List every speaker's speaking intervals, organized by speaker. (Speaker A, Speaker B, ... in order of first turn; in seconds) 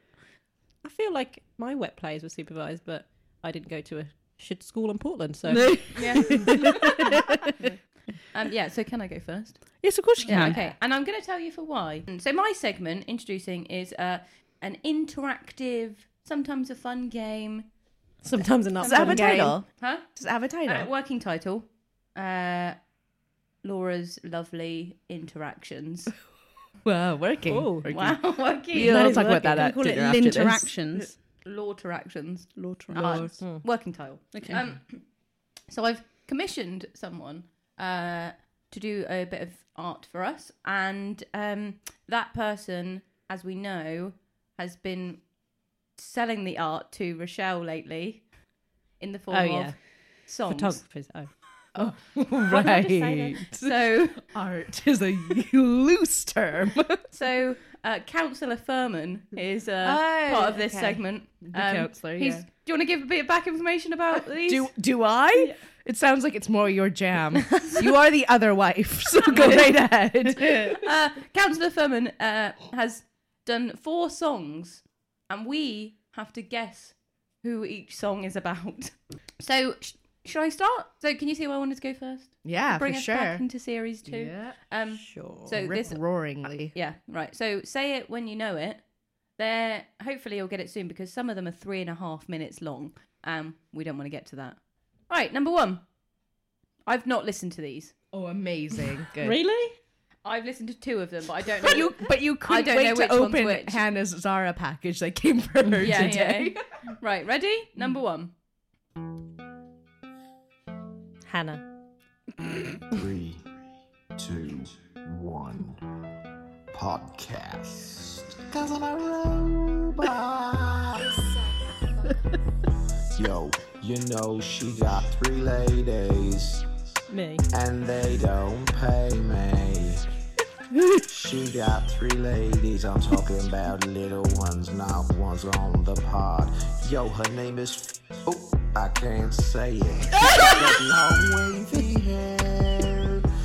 Speaker A: 0.8-6.4, 10.3-10.7, 18.2-19.6, 27.5-27.9, 28.7-30.1, 33.4-33.6, 49.3-51.4, 52.5-53.5, 85.0-85.5, 99.2-99.8, 111.3-111.7, 127.1-127.5
Speaker B: 5.5-7.7, 9.8-10.6, 29.3-31.2, 32.6-33.4, 34.3-34.7
Speaker C: 6.0-6.8, 8.3-17.7, 18.8-20.1, 20.6-22.8, 23.6-26.1, 27.9-29.1, 30.9-35.1, 35.7-45.3, 46.0-48.3, 49.0-50.8, 53.5-54.2, 57.1-64.8, 69.3-69.8, 70.7-88.8, 89.4-95.8, 96.9-97.9, 100.2-103.8, 105.8-108.3
Speaker D: 18.8-20.9, 26.8-30.7, 32.9-33.3, 51.8-53.8, 54.3-57.0, 59.8-62.5, 64.3-70.8, 82.4-83.5, 84.0-84.6, 85.5-86.8, 98.1-99.4, 101.5-106.8
Speaker E: 112.9-113.4, 114.2-115.9, 116.7-121.3, 123.2-126.7, 127.5-130.1, 130.9-143.3